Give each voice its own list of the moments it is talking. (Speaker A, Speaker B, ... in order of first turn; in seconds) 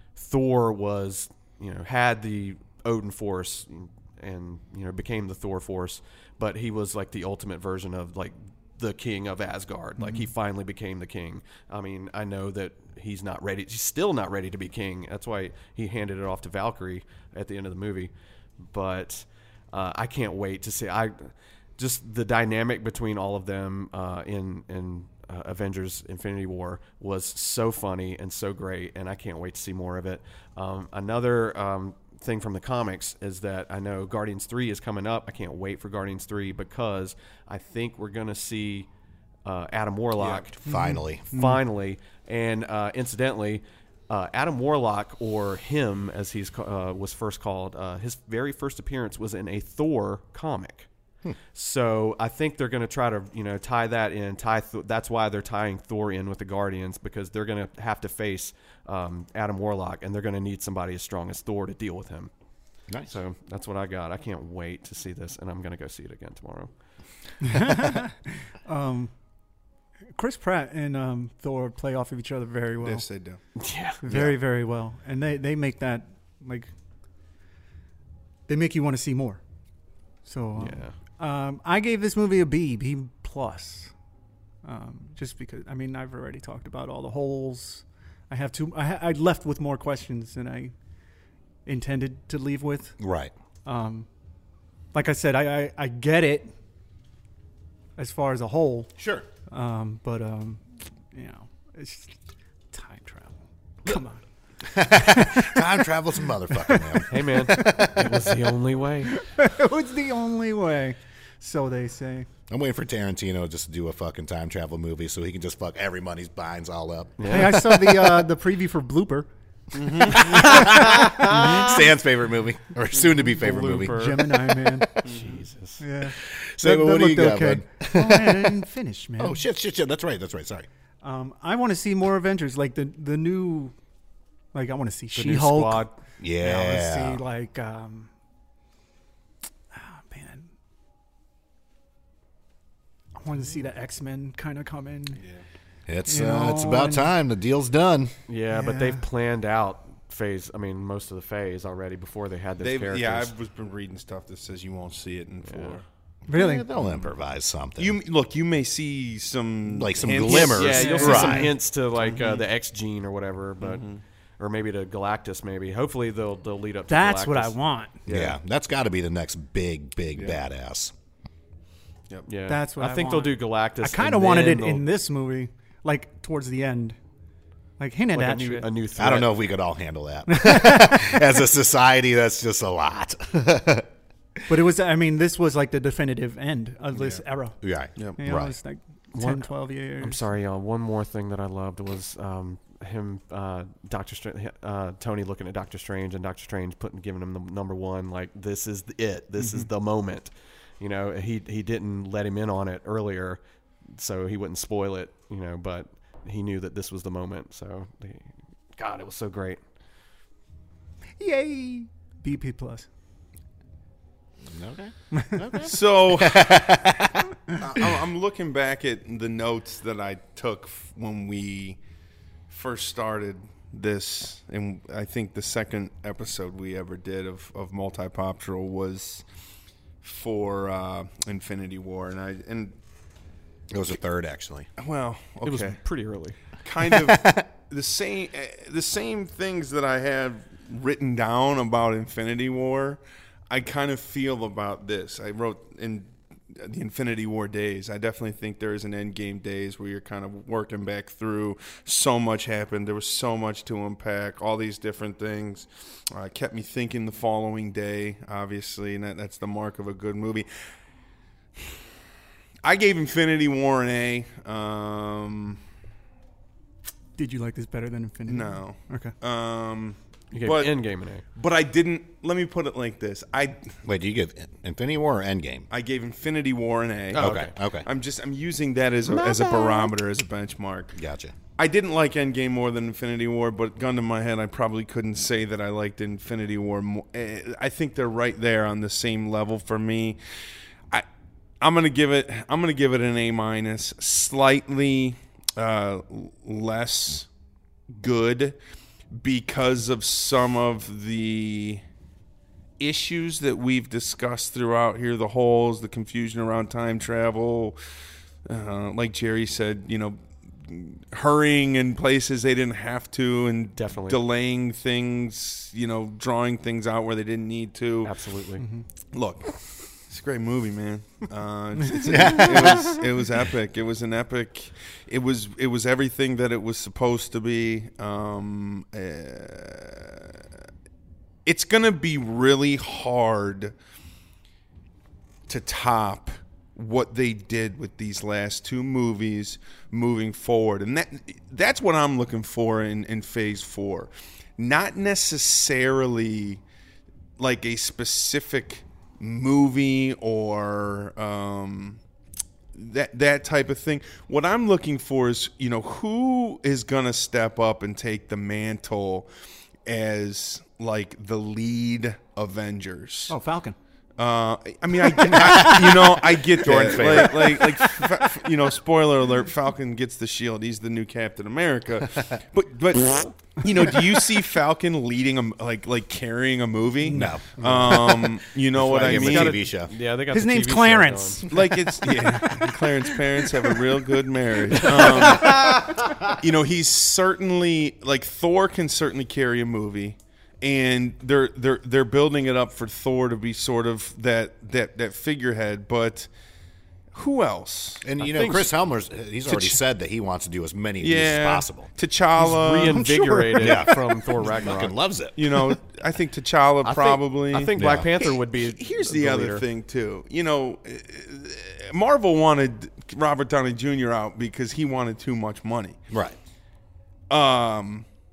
Speaker A: 0.2-18.1, 18.6-38.9, 39.5-40.5, 41.3-50.9, 51.5-62.3, 63.1-66.7, 73.6-74.3, 80.6-81.0, 107.1-109.2, 117.2-117.6, 120.3-121.8, 122.9-124.3, 125.0-125.8, 135.2-135.9, 148.3-153.3, 155.4-155.8, 160.1-163.9, 164.4-167.6, 172.3-174.8, 178.1-179.4, 189.1-203.4, 203.9-209.6, 235.4-236.4, 270.3-271.2, 277.1-277.5, 279.1-280.0, 313.8-314.2, 318.0-318.6, 379.0-381.5, 384.7-386.1, 398.2-398.7, 402.4-404.9, 406.8-409.7
Speaker B: 40.2-41.3, 62.9-63.2, 93.0-93.3, 99.0-99.3, 104.6-108.5, 112.5-118.2, 120.0-124.3, 126.2-128.6, 129.2-130.7, 136.2-137.2, 145.9-148.1, 156.3-158.0, 159.7-161.5, 168.1-170.9, 179.0-183.9, 187.6-188.6, 214.4-217.2, 233.7-234.7, 236.8-237.5, 273.9-275.7, 277.1-277.9, 280.9-281.3, 322.0-323.2, 365.3-366.0, 366.6-368.1, 377.1-380.0, 398.0-401.9, 402.9-405.8, 407.8-408.1, 416.1-416.4
Speaker C: 40.7-41.6, 67.4-69.1, 70.2-73.0, 74.0-76.7, 78.5-79.4, 80.3-83.9, 84.6-90.7, 91.7-93.0, 93.7-94.1, 94.9-96.5, 98.0-98.9, 99.5-102.2, 102.7-104.2, 104.8-105.6, 106.7-107.0, 109.2-112.3, 117.3-119.3, 120.6-121.7, 123.9-124.9, 125.8-129.4, 131.0-133.8, 134.5-135.8, 136.4-138.1, 139.7-140.5, 143.2-145.2, 146.1-147.1, 148.5-149.1, 156.3-156.7, 160.8-161.5, 166.9-168.0, 172.5-177.0, 177.8-178.7, 180.3-181.1, 184.5-187.6, 188.2-190.2, 211.2-212.9, 267.2-269.1, 322.0-322.3, 363.3-363.8, 365.4-365.7, 377.1-377.4, 380.3-381.5
Speaker D: 72.8-73.4, 119.8-120.3, 125.0-125.3, 152.6-155.8, 157.8-162.5, 163.6-164.0, 168.1-168.3, 215.6-221.8, 222.5-229.2, 230.0-232.7, 234.8-235.8, 236.6-260.5, 262.6-265.6, 268.3-270.8, 271.4-273.7, 275.7-281.0, 281.6-290.2, 291.6-297.3, 297.9-298.6, 299.1-301.8, 302.8-307.8, 308.5-318.1, 319.1-319.6, 320.1-330.3, 331.4-333.8, 335.5-346.6, 347.4-352.0, 352.7-359.3, 359.9-363.4, 364.2-379.6, 381.5-396.3, 397.1-398.0, 401.0-403.9, 405.4-407.8, 408.8-416.0, 417.3-418.1